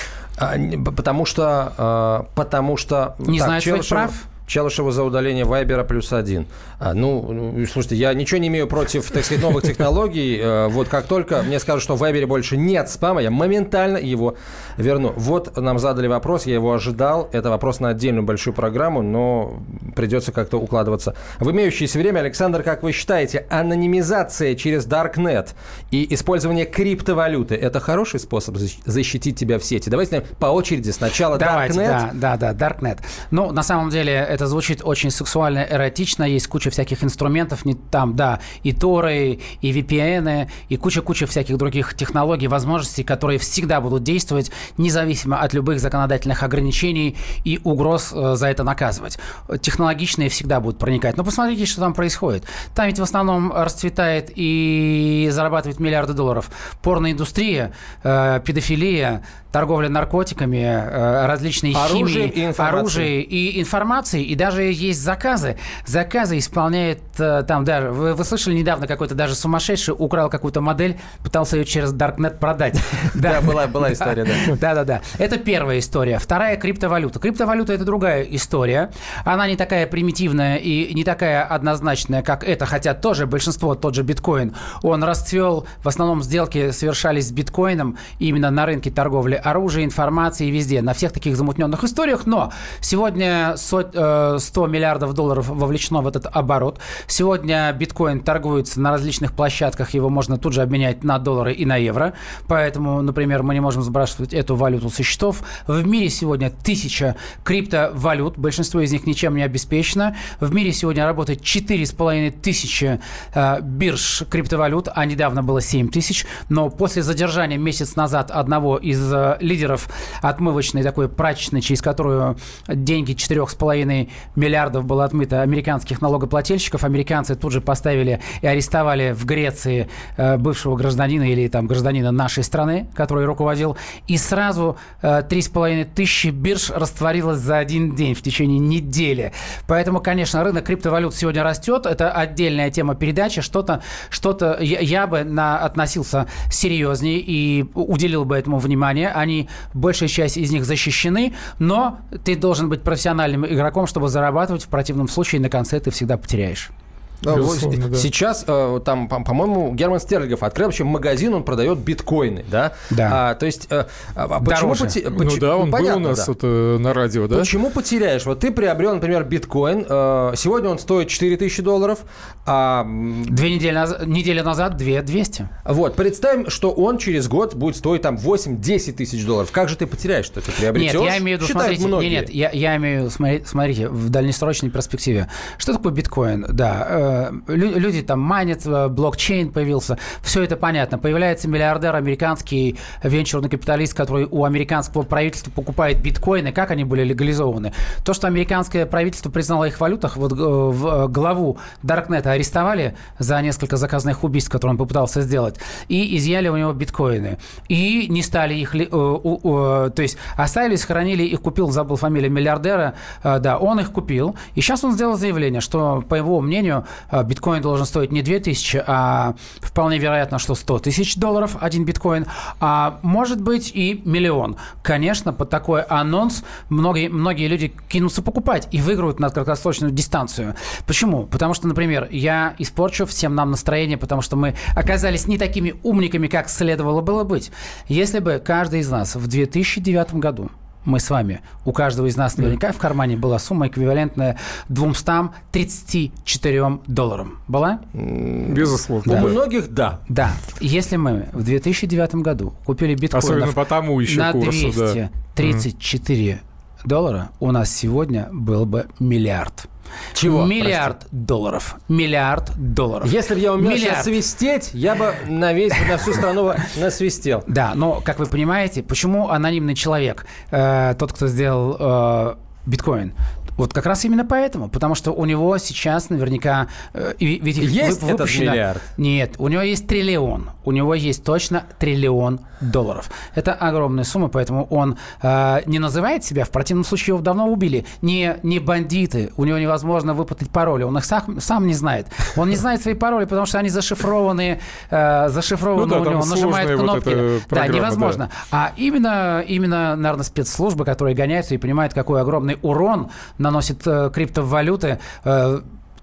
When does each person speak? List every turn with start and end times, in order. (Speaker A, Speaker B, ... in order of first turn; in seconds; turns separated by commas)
Speaker A: 0.4-32.1, Speaker B: 3.3-4.2, Speaker B: 31.3-156.7, Speaker A: 61.7-63.1, Speaker A: 73.1-74.6, Speaker A: 157.2-166.3, Speaker C: 157.3-158.1, Speaker B: 162.9-163.2, Speaker B: 164.4-165.0, Speaker C: 165.1-167.5, Speaker A: 167.3-173.3, Speaker B: 173.3-175.5, Speaker A: 175.7-182.3, Speaker B: 180.7-247.8, Speaker A: 247.9-250.0, Speaker C: 248.5-249.4, Speaker B: 249.1-249.3, Speaker B: 250.1-259.7, Speaker C: 253.1-255.6, Speaker A: 260.1-260.9, Speaker B: 260.2-264.1, Speaker A: 263.0-267.5, Speaker B: 267.5-305.6, Speaker A: 277.6-278.9, Speaker C: 295.8-298.2